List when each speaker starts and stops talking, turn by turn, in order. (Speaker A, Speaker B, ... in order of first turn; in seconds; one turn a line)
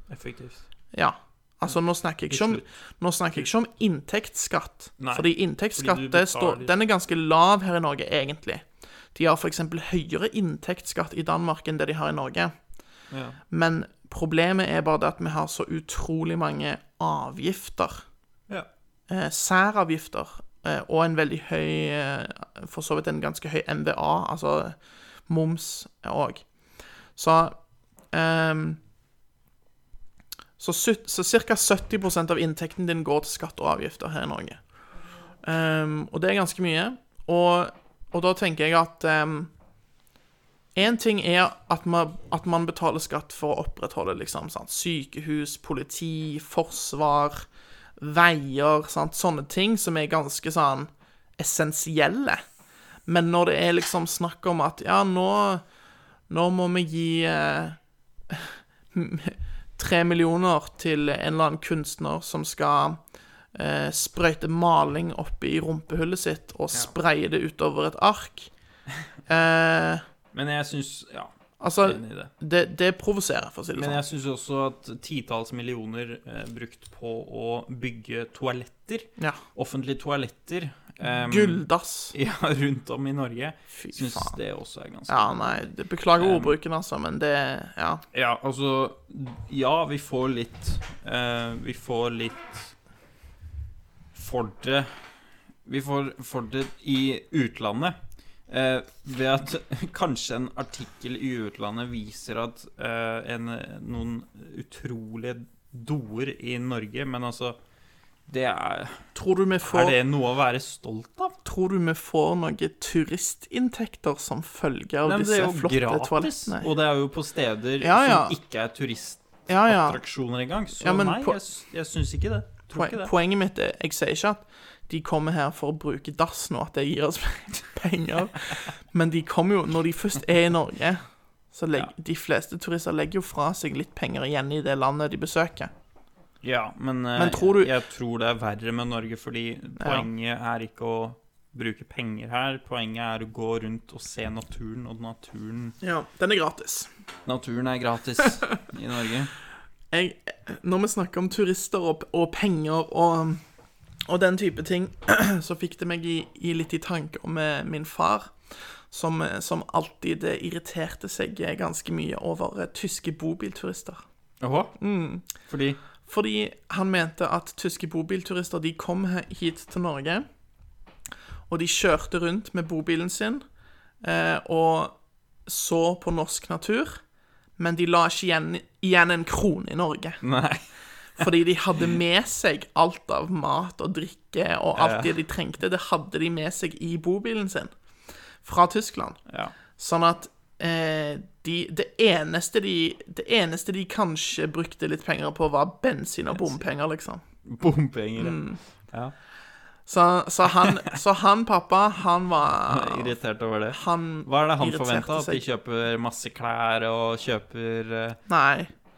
Speaker A: 0.1-0.7
Speaker B: 0.9-12.5
Speaker A: 2.3-2.7
Speaker A: 5.0-6.7
Speaker A: 13.1-13.4
Speaker B: 13.5-18.0
Speaker B: 19.1-26.4
Speaker B: 27.2-27.6
Speaker B: 28.1-28.8
Speaker B: 30.6-34.6
Speaker B: 35.4-39.5
Speaker B: 40.8-47.5
Speaker B: 48.0-52.4
Speaker B: 53.1-55.6
Speaker B: 56.3-57.8
Speaker B: 58.3-63.0
Speaker B: 63.5-68.5
Speaker B: 69.3-70.0
Speaker A: 70.3-72.3
Speaker B: 71.6-74.0
Speaker A: 73.8-85.6
Speaker B: 81.1-82.1
Speaker B: 83.7-84.4
Speaker B: 85.1-88.0
Speaker A: 86.2-86.6
Speaker A: 88.1-92.7
Speaker A: 94.1-95.1
Speaker A: 95.7-98.0
Speaker A: 98.5-107.6
Speaker A: 108.3-109.1
Speaker B: 109.2-110.0
Speaker A: 109.7-111.4
Speaker B: 111.5-116.7
Speaker A: 115.0-123.1
Speaker B: 117.8-118.4
Speaker B: 119.5-120.0
Speaker B: 120.8-121.4
Speaker B: 122.7-135.7
Speaker A: 136.4-145.8
Speaker B: 137.2-137.7
Speaker B: 139.8-140.1
Speaker B: 145.8-146.9
Speaker A: 147.3-149.3
Speaker B: 149.9-153.4
Speaker B: 154.1-164.0
Speaker A: 164.4-164.8
Speaker B: 164.8-165.3
Speaker A: 165.5-165.8
Speaker B: 166.0-170.3
Speaker B: 171.5-173.4
Speaker B: 174.0-177.0
Speaker B: 177.6-180.2
Speaker A: 180.2-180.6
Speaker B: 181.2-187.7
Speaker A: 184.8-185.2
Speaker B: 188.4-189.2
Speaker A: 189.3-189.5
Speaker B: 189.8-197.2
Speaker A: 197.5-198.4
Speaker B: 198.2-198.6
Speaker B: 199.9-203.1
Speaker A: 202.7-208.2
Speaker B: 203.7-205.4
Speaker B: 208.3-208.7